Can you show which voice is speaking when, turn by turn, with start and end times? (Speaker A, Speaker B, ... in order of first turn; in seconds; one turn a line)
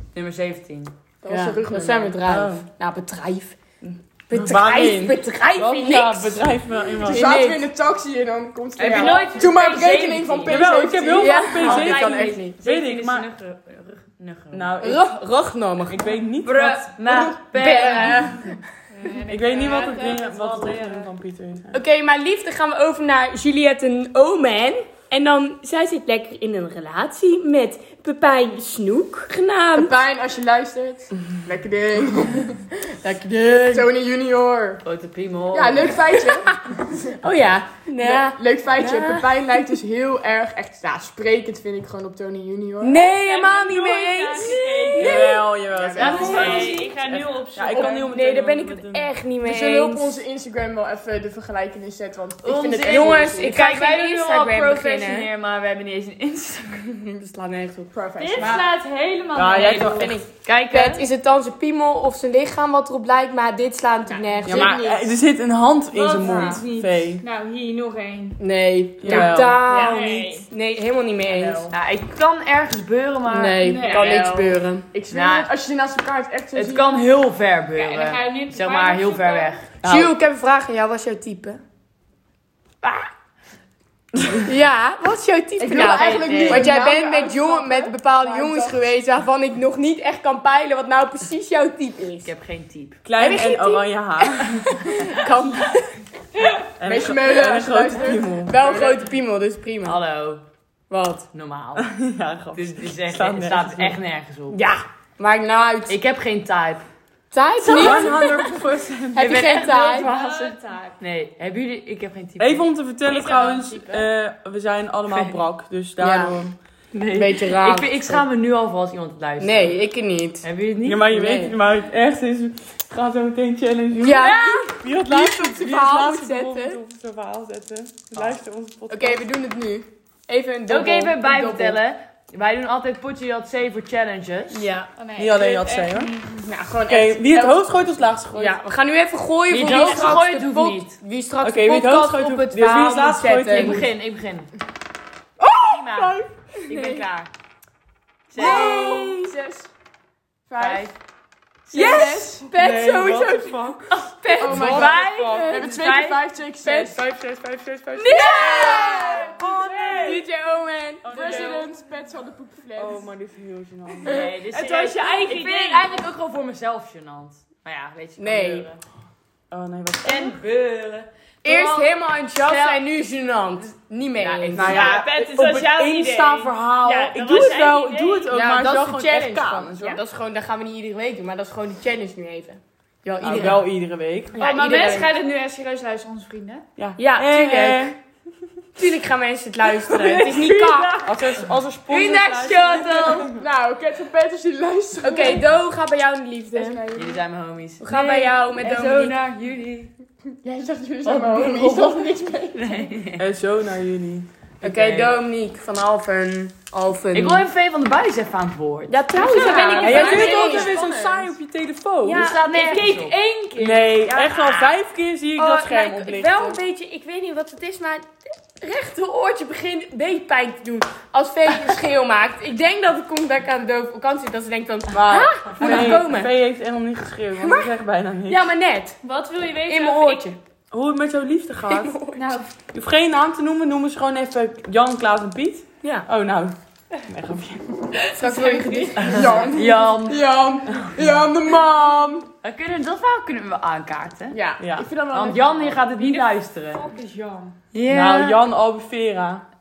Speaker A: 0.1-0.9
Speaker B: 1.2-2.2
Speaker C: 1.3-3.6
Speaker D: 2.3-2.7
Speaker D: 3.8-7.3
Speaker C: 4.3-6.5
Speaker B: 7.0-12.3
Speaker C: 7.0-7.6
Speaker A: 8.8-11.0
Speaker D: 10.5-13.3
Speaker C: 11.1-12.6
Speaker A: 11.6-14.8
Speaker D: 14.5-15.1
Speaker C: 14.8-16.1
Speaker D: 15.9-17.4
Speaker A: 16.4-18.3
Speaker B: 17.1-18.3
Speaker C: 17.6-18.6
Speaker E: 18.9-21.1
Speaker D: 19.3-21.8
Speaker C: 21.7-30.0
Speaker B: 29.8-32.7
Speaker C: 33.0-33.9
Speaker B: 33.7-34.8
Speaker A: 34.8-36.0
Speaker B: 35.5-36.6
Speaker C: 36.3-36.6
Speaker C: 37.2-39.7
Speaker B: 38.0-43.0
Speaker C: 42.8-45.4
Speaker E: 43.0-45.3
Speaker A: 44.4-45.3
Speaker D: 45.0-49.1
Speaker B: 45.6-46.8
Speaker A: 46.0-47.9
Speaker E: 46.0-48.1
Speaker C: 48.1-50.2
Speaker B: 49.4-53.5
Speaker A: 52.4-56.9
Speaker C: 52.8-55.3
Speaker C: 56.9-58.5
Speaker B: 57.9-58.7
Speaker E: 58.2-60.2
Speaker D: 59.4-60.2
Speaker A: 59.6-61.1
Speaker C: 59.6-65.0
Speaker B: 64.1-65.0
Speaker D: 64.5-67.2
Speaker E: 65.9-68.4
Speaker B: 66.2-66.6
Speaker C: 68.4-71.7
Speaker D: 69.0-69.6
Speaker B: 69.1-70.4
Speaker E: 69.7-70.5
Speaker B: 71.3-71.7
Speaker A: 71.7-74.3
Speaker C: 73.3-74.9
Speaker E: 73.6-74.3
Speaker B: 74.0-77.0
Speaker A: 75.1-75.5
Speaker A: 76.5-79.7
Speaker E: 77.7-79.6
Speaker D: 79.8-80.1
Speaker C: 79.8-81.6
Speaker C: 82.8-83.1
Speaker C: 84.4-92.3
Speaker B: 85.6-88.9
Speaker A: 86.0-86.6
Speaker D: 86.3-86.7
Speaker A: 92.2-93.0
Speaker D: 93.0-94.9
Speaker C: 93.2-95.8
Speaker D: 96.8-98.6
Speaker B: 96.8-99.0
Speaker C: 98.5-100.0
Speaker A: 99.8-100.4
Speaker C: 100.9-101.3
Speaker A: 101.3-101.9
Speaker D: 101.8-104.0
Speaker A: 102.5-104.6
Speaker C: 104.5-106.0
Speaker A: 105.9-106.8
Speaker C: 107.3-108.5
Speaker D: 107.6-109.5
Speaker C: 109.2-110.1
Speaker A: 109.2-112.7
Speaker E: 109.7-110.9
Speaker D: 112.4-116.5
Speaker E: 113.1-114.0
Speaker C: 116.0-116.4
Speaker A: 116.9-119.8
Speaker C: 117.1-118.2
Speaker C: 119.4-120.4
Speaker A: 120.4-121.1
Speaker D: 120.8-129.2
Speaker C: 121.1-121.5
Speaker C: 123.9-126.8
Speaker A: 124.2-124.7
Speaker C: 128.9-131.8
Speaker A: 130.7-134.6
Speaker C: 134.5-134.9
Speaker E: 135.0-136.4
Speaker D: 135.2-136.1
Speaker C: 136.5-137.5
Speaker B: 136.9-137.2
Speaker D: 136.9-138.6
Speaker C: 138.3-143.8
Speaker A: 139.5-141.0
Speaker D: 141.4-143.9
Speaker A: 143.5-144.5
Speaker D: 145.4-146.3
Speaker A: 145.6-147.3
Speaker C: 146.7-147.1
Speaker A: 148.3-149.0
Speaker C: 148.3-149.3
Speaker B: 148.3-149.7
Speaker B: 150.5-150.9
Speaker A: 150.6-150.9
Speaker B: 151.7-152.5
Speaker C: 151.7-155.7
Speaker D: 152.5-155.6
Speaker B: 154.4-157.0
Speaker A: 154.5-156.2
Speaker C: 156.6-156.9
Speaker D: 156.8-160.3
Speaker C: 158.0-161.5
Speaker B: 158.4-159.3
Speaker D: 161.0-161.7
Speaker B: 161.1-163.1
Speaker A: 161.3-161.6
Speaker D: 162.8-164.3
Speaker A: 164.0-168.8
Speaker E: 164.5-166.0
Speaker C: 168.2-168.7
Speaker D: 169.5-170.4
Speaker A: 170.0-172.8
Speaker C: 171.4-174.9
Speaker A: 174.2-175.1
Speaker D: 174.6-180.0
Speaker E: 174.7-178.2
Speaker C: 176.9-177.4
Speaker A: 177.2-178.2
Speaker C: 178.3-183.7
Speaker D: 183.2-184.4
Speaker C: 184.4-185.1
Speaker E: 184.4-186.7
Speaker D: 186.8-188.0
Speaker C: 187.0-187.9
Speaker C: 188.8-191.0
Speaker E: 189.9-191.1
Speaker D: 191.1-193.3
Speaker C: 191.9-193.3
Speaker B: 193.3-195.5
Speaker C: 195.0-196.8
Speaker B: 196.5-197.2
Speaker A: 196.9-199.9
Speaker C: 197.8-199.2
Speaker B: 200.4-202.9
Speaker A: 201.0-203.2
Speaker D: 203.2-204.3
Speaker A: 204.6-205.2
Speaker C: 204.6-207.5
Speaker A: 207.1-210.3
Speaker C: 208.9-210.7
Speaker E: 209.2-210.6
Speaker B: 209.4-211.3
Speaker D: 209.8-212.3
Speaker C: 212.1-212.9
Speaker A: 212.1-213.2
Speaker E: 212.5-214.4
Speaker D: 213.6-216.6
Speaker A: 214.3-214.7
Speaker C: 215.4-226.3
Speaker D: 224.9-228.4
Speaker C: 227.4-227.7
Speaker C: 228.3-229.0
Speaker E: 229.0-230.3
Speaker C: 229.7-230.4
Speaker D: 230.7-232.0
Speaker C: 231.7-232.4
Speaker E: 232.2-232.5
Speaker D: 232.7-236.6
Speaker C: 235.8-236.1
Speaker D: 237.1-237.7
Speaker E: 238.0-239.2
Speaker C: 238.2-239.5
Speaker B: 239.0-242.3
Speaker A: 239.3-240.2
Speaker A: 242.4-244.4
Speaker B: 244.3-245.9
Speaker D: 244.6-244.9
Speaker A: 245.1-246.9
Speaker E: 246.0-247.6
Speaker A: 247.8-248.3
Speaker C: 247.8-248.3
Speaker D: 247.9-249.4